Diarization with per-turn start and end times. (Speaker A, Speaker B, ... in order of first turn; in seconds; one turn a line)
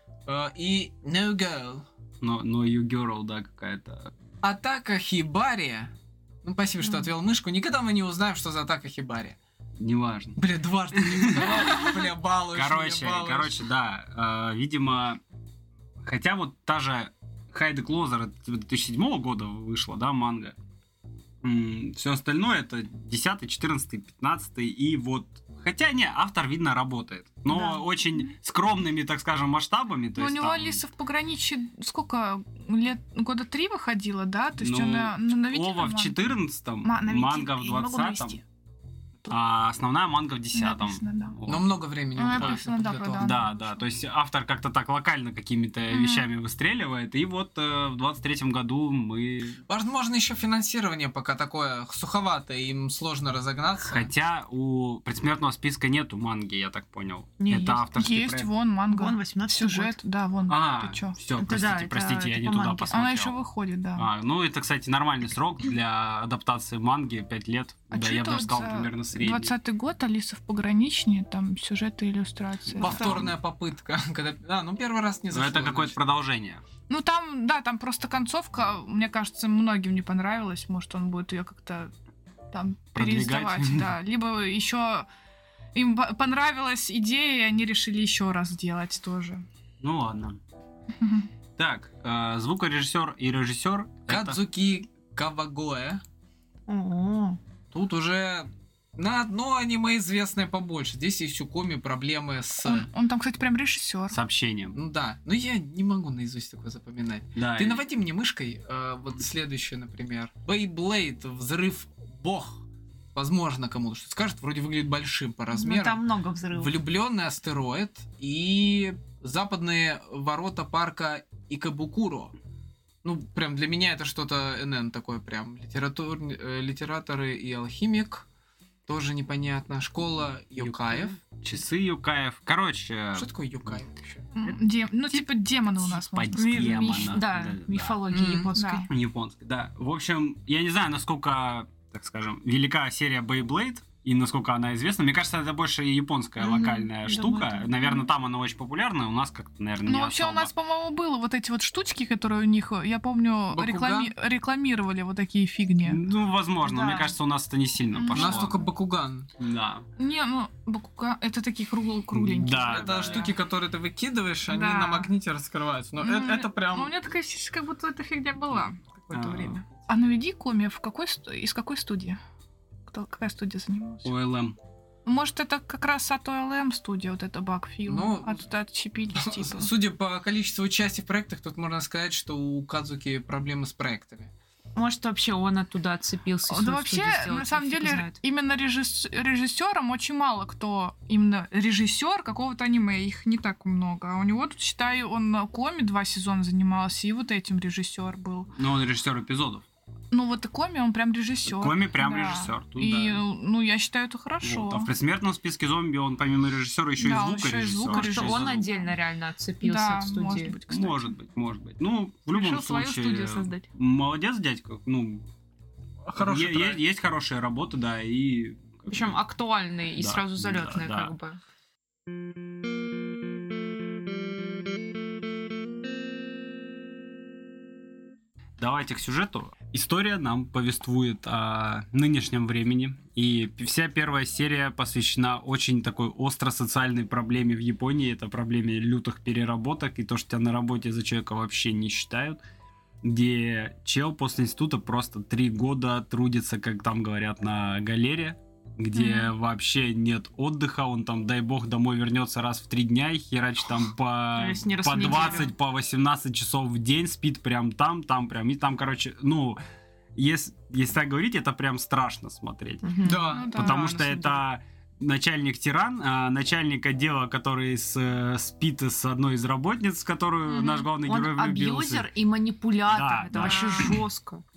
Speaker A: 0.3-1.9
Speaker B: 2.2-4.1
Speaker A: 4.4-5.9
Speaker A: 6.4-9.4
Speaker B: 9.8-10.4
Speaker A: 10.4-13.6
Speaker B: 10.9-11.8
Speaker B: 12.5-15.2
Speaker B: 16.0-20.6
Speaker B: 21.4-30.8
Speaker C: 27.5-27.8
Speaker C: 30.1-38.4
Speaker B: 34.6-38.4
Speaker B: 39.3-41.7
Speaker C: 40.5-41.4
Speaker A: 41.5-43.3
Speaker C: 42.2-43.8
Speaker B: 42.3-42.6
Speaker B: 43.2-49.6
Speaker C: 45.9-46.2
Speaker A: 49.7-54.1
Speaker B: 53.8-58.5
Speaker D: 57.4-57.8
Speaker C: 57.9-61.2
Speaker D: 58.9-60.0
Speaker B: 60.5-63.4
Speaker D: 61.4-62.9
Speaker C: 62.9-64.1
Speaker B: 64.0-69.5
Speaker C: 67.9-73.3
Speaker B: 72.7-73.3
Speaker A: 72.8-76.0
Speaker B: 75.3-76.6
Speaker C: 76.9-81.9
Speaker C: 82.5-85.1
Speaker B: 82.9-83.9
Speaker C: 85.7-89.4
Speaker B: 89.8-90.4
Speaker C: 91.0-91.3
Speaker B: 91.6-94.4
Speaker A: 94.1-96.0
Speaker D: 96.7-97.4
Speaker A: 97.7-102.9
Speaker C: 102.6-104.2
Speaker B: 104.1-104.8
Speaker A: 104.7-122.3
Speaker B: 107.4-107.8
Speaker D: 115.5-116.7
Speaker A: 123.0-128.2
Speaker A: 128.9-131.2
Speaker B: 130.6-133.7
Speaker A: 133.2-134.3
Speaker C: 134.4-137.0
Speaker B: 135.8-138.0
Speaker D: 136.3-138.9
Speaker A: 138.1-138.5
Speaker C: 138.6-138.9
Speaker B: 138.9-150.5
Speaker D: 146.4-148.1
Speaker C: 149.8-156.0
Speaker A: 153.5-154.1
Speaker B: 155.8-158.7
Speaker D: 156.6-157.1
Speaker C: 157.9-158.5
Speaker A: 158.1-159.3
Speaker B: 159.4-159.9
Speaker C: 160.0-163.3
Speaker B: 162.1-163.3
Speaker A: 162.6-166.9
Speaker C: 164.5-165.1
Speaker C: 166.0-172.2
Speaker B: 169.1-169.6
Speaker C: 172.9-174.1
Speaker B: 174.0-174.6
Speaker C: 175.1-179.7
Speaker A: 177.9-178.4
Speaker A: 179.2-184.3
Speaker D: 184.8-188.2
Speaker C: 186.5-198.5
Speaker B: 198.6-199.7
Speaker C: 200.1-204.9
Speaker B: 201.4-203.2
Speaker B: 204.4-208.6
Speaker C: 207.0-208.9
Speaker D: 207.9-210.6
Speaker C: 209.6-211.1
Speaker B: 210.7-215.3
Speaker C: 212.3-213.7
Speaker A: 216.1-216.8
Speaker B: 216.2-219.2
Speaker D: 218.9-221.4
Speaker B: 220.0-221.1
Speaker B: 228.6-242.4
Speaker B: 243.0-259.6
Speaker C: 248.9-249.3
Speaker D: 254.3-255.5
Speaker C: 255.1-255.4
Speaker B: 260.2-272.1
Speaker D: 262.8-263.3
Speaker A: 263.0-263.5
Speaker C: 263.1-264.4
Speaker D: 270.5-274.4
Speaker B: 272.9-274.0
Speaker C: 273.3-274.0